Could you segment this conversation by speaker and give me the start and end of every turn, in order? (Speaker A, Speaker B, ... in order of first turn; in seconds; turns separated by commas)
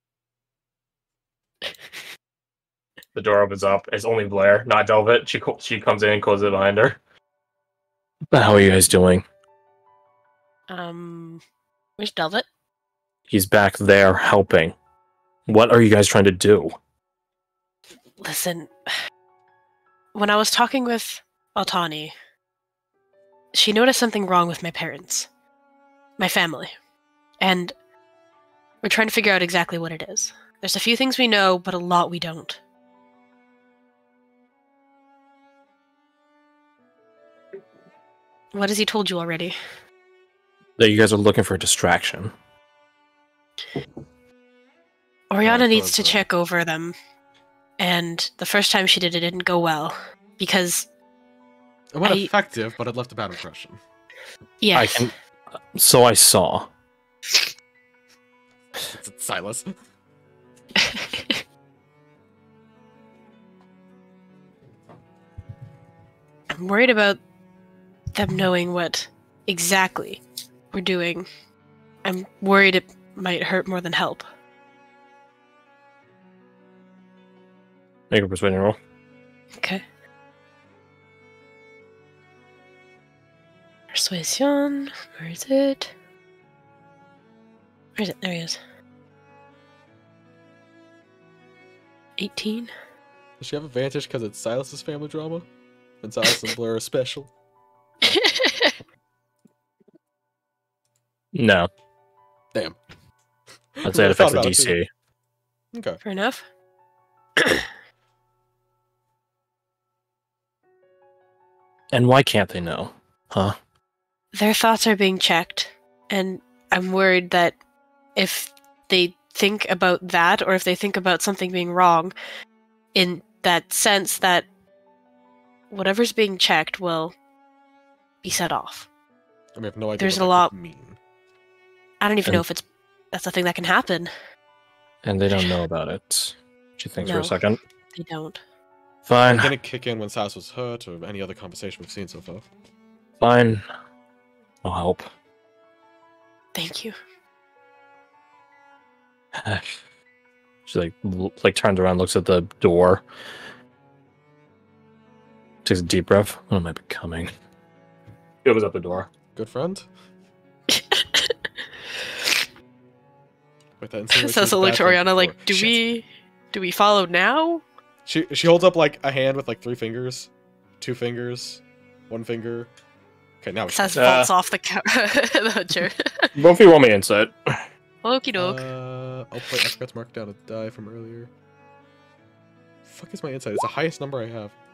Speaker A: 3.1-7.0, Speaker A: 8.3-9.2, Speaker B: 10.7-11.4, Speaker B: 12.0-12.4, Speaker A: 13.3-14.7, Speaker A: 15.5-16.7, Speaker B: 18.2-18.9, Speaker B: 20.1-22.1, Speaker B: 23.5-25.3, Speaker B: 26.2-26.7, Speaker B: 27.4-27.7, Speaker B: 28.8-32.6, Speaker B: 38.5-39.6, Speaker A: 40.8-42.3, Speaker B: 45.3-47.0, Speaker A: 45.4-46.2, Speaker C: 45.5-45.9, Speaker B: 47.8-50.9, Speaker C: 51.9-53.8, Speaker B: 52.0-52.3, Speaker B: 54.6-55.1, Speaker A: 54.7-55.1, Speaker A: 55.7-56.7, Speaker C: 58.8-59.7, Speaker B: 60.8-61.4, Speaker B: 66.5-67.2, Speaker B: 68.1-71.3, Speaker B: 72.0-74.2, Speaker A: 78.1-78.8, Speaker B: 79.6-79.8, Speaker B: 83.9-85.9, Speaker B: 88.0-88.6, Speaker B: 92.2-92.7, Speaker C: 93.4-95.5, Speaker C: 96.0-97.3, Speaker B: 98.0-98.7, Speaker A: 101.3-101.7, Speaker C: 103.8-104.7, Speaker A: 103.8-104.9, Speaker C: 105.7-106.0, Speaker B: 106.0-106.4, Speaker B: 107.4-107.7, Speaker A: 111.9-113.5, Speaker B: 114.3-117.5, Speaker B: 118.2-122.1, Speaker B: 122.9-124.5, Speaker B: 125.7-127.1, Speaker B: 128.2-128.9, Speaker C: 129.6-131.0, Speaker B: 130.0-130.5, Speaker B: 132.0-134.1, Speaker A: 135.0-137.6, Speaker B: 137.0-137.4, Speaker B: 137.9-138.4, Speaker A: 139.1-139.5, Speaker C: 139.2-142.5, Speaker A: 143.2-143.6, Speaker A: 144.6-145.1, Speaker B: 146.5-146.9, Speaker A: 149.4-149.8, Speaker A: 150.7-153.0, Speaker A: 155.6-157.3, Speaker A: 158.4-159.1, Speaker C: 159.3-159.8, Speaker B: 160.7-161.4, Speaker B: 162.0-162.4, Speaker C: 163.8-165.8, Speaker B: 164.1-167.6, Speaker C: 168.0-172.7, Speaker C: 173.4-174.2, Speaker B: 173.7-176.3, Speaker A: 173.9-174.3, Speaker A: 176.3-177.6, Speaker B: 178.0-178.6, Speaker C: 178.3-181.3, Speaker C: 182.8-184.5